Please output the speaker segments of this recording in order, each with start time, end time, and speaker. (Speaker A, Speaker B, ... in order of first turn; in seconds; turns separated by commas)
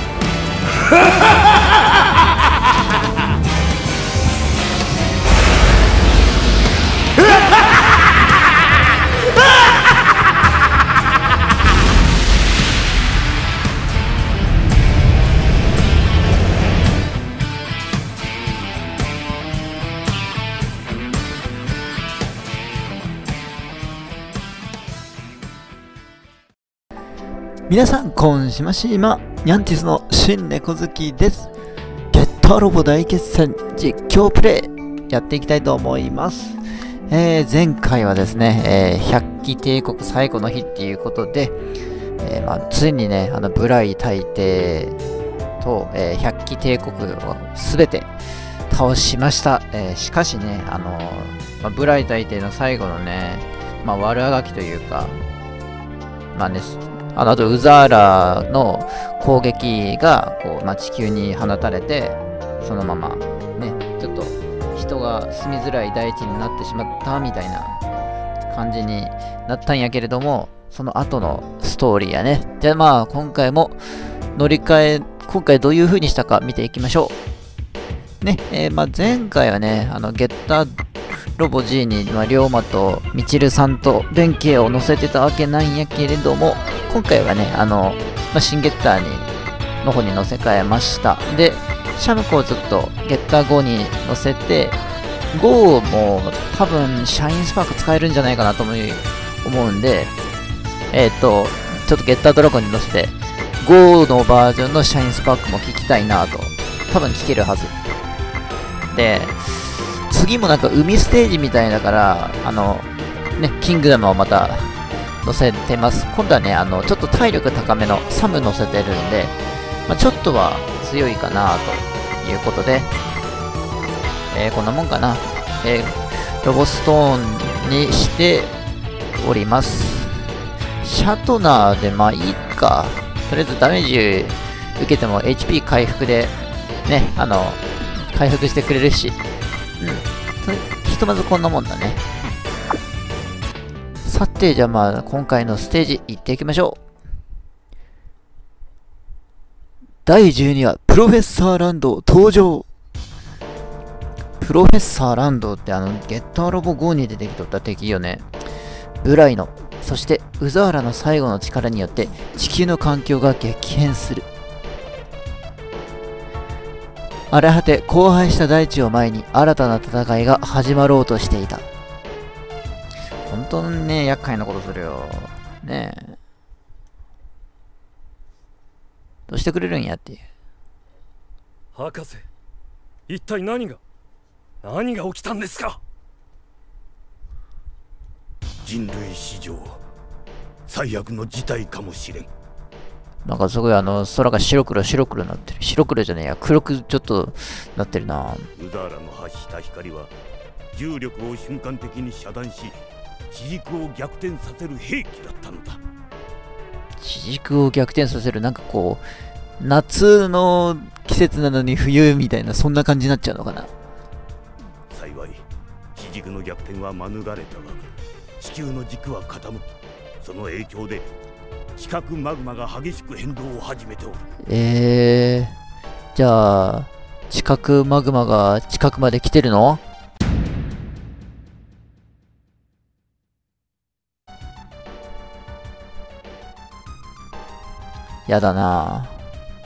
Speaker A: 1.0-1.4, Speaker B: 27.7-31.5, Speaker B: 32.1-41.5, Speaker B: 42.2-45.0, Speaker B: 45.6-48.1, Speaker B: 48.7-55.2, Speaker B: 56.3-67.8, Speaker B: 68.5-73.8, Speaker B: 74.3-77.1, Speaker B: 78.2-80.7, Speaker B: 81.4-89.3, Speaker B: 89.8-94.8, Speaker B: 95.3-100.1, Speaker B: 100.9-107.7, Speaker B: 108.9-119.3, Speaker B: 119.9-122.9, Speaker B: 124.3-128.5, Speaker B: 129.2-130.3, Speaker B: 130.8-136.3, Speaker B: 136.8-139.2, Speaker B: 139.8-142.0, Speaker B: 144.0-146.8, Speaker B: 150.0-152.6, Speaker B: 154.4-158.2, Speaker B: 159.0-164.2, Speaker B: 167.3-171.7, Speaker B: 173.2-176.2, Speaker B: 179.3-180.2, Speaker C: 181.7-182.2, Speaker C: 183.1-183.8, Speaker C: 184.6-185.8, Speaker A: 188.6-189.8, Speaker A: 190.7-192.3, Speaker B: 193.2-198.5, Speaker A: 198.6-200.1, Speaker A: 200.7-202.8, Speaker A: 203.3-205.8, Speaker B: 207.0-209.0, Speaker B: 209.6-213.7, Speaker A: 214.9-215.4, Speaker A: 215.9-217.9, Speaker A: 218.4-221.1, Speaker A: 221.8-224.2, Speaker B: 224.4-225.6, Speaker B: 226.1-229.8, Speaker B: 238.3-239.2